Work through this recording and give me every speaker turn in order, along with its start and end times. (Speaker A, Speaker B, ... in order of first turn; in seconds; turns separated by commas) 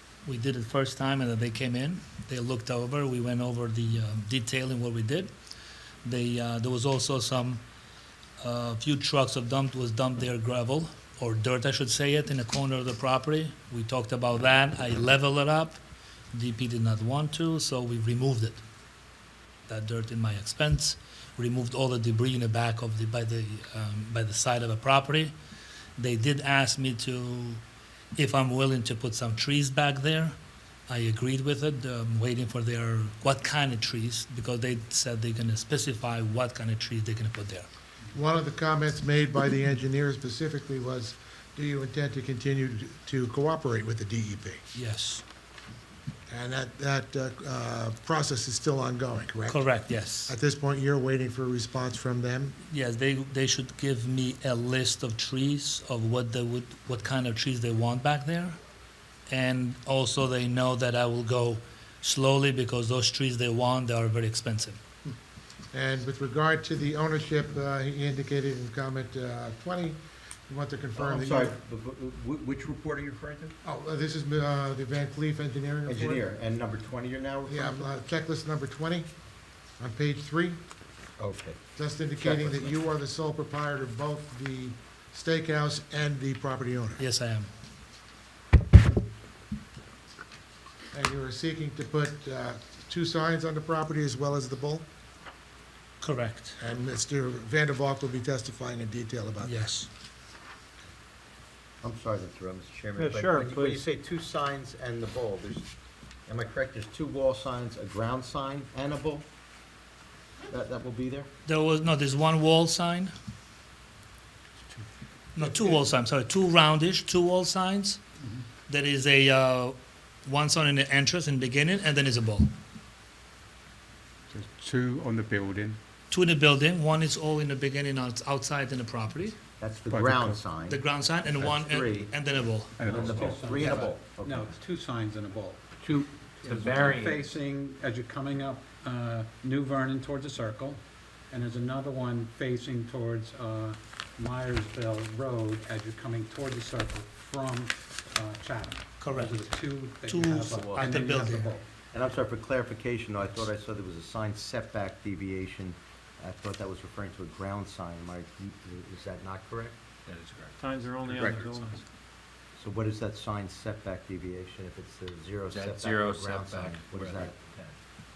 Speaker A: 0.2-5.3, Speaker A: 6.0-7.6, Speaker A: 8.4-15.8, Speaker A: 16.3-18.6, Speaker A: 19.7-25.3, Speaker A: 26.0-27.6, Speaker A: 28.1-30.3, Speaker A: 30.9-37.7, Speaker B: 38.1-44.6, Speaker A: 44.7-45.2, Speaker B: 46.3-49.7, Speaker A: 49.5-50.3, Speaker B: 50.2-52.5, Speaker A: 52.7-58.5, Speaker A: 59.3-64.8, Speaker B: 65.7-70.0, Speaker B: 70.5-71.5, Speaker C: 71.0-73.5, Speaker B: 73.6-76.2, Speaker C: 75.8-77.8, Speaker B: 77.5-79.1, Speaker B: 79.8-80.6, Speaker C: 81.2-81.6, Speaker B: 81.8-87.0, Speaker C: 82.2-82.7, Speaker A: 87.0-87.5, Speaker B: 90.9-94.8, Speaker A: 96.0-96.6, Speaker B: 96.6-99.6, Speaker A: 99.4-99.9, Speaker C: 101.8-105.7, Speaker D: 103.0-103.8, Speaker C: 106.3-109.3, Speaker C: 110.5-111.3, Speaker A: 111.4-113.1, Speaker A: 115.3-118.0, Speaker A: 118.7-122.5, Speaker E: 124.3-125.8, Speaker A: 126.1-129.4, Speaker C: 129.6-130.8, Speaker E: 129.9-130.4, Speaker A: 130.7-132.9, Speaker C: 131.4-132.2, Speaker E: 132.8-133.5, Speaker F: 132.8-151.7, Speaker C: 132.9-134.6, Speaker D: 135.8-137.3, Speaker A: 149.0-149.4, Speaker A: 150.1-151.5, Speaker C: 151.9-159.8, Speaker D: 160.1-161.8, Speaker F: 161.0-161.7, Speaker C: 162.6-167.3, Speaker D: 165.5-167.8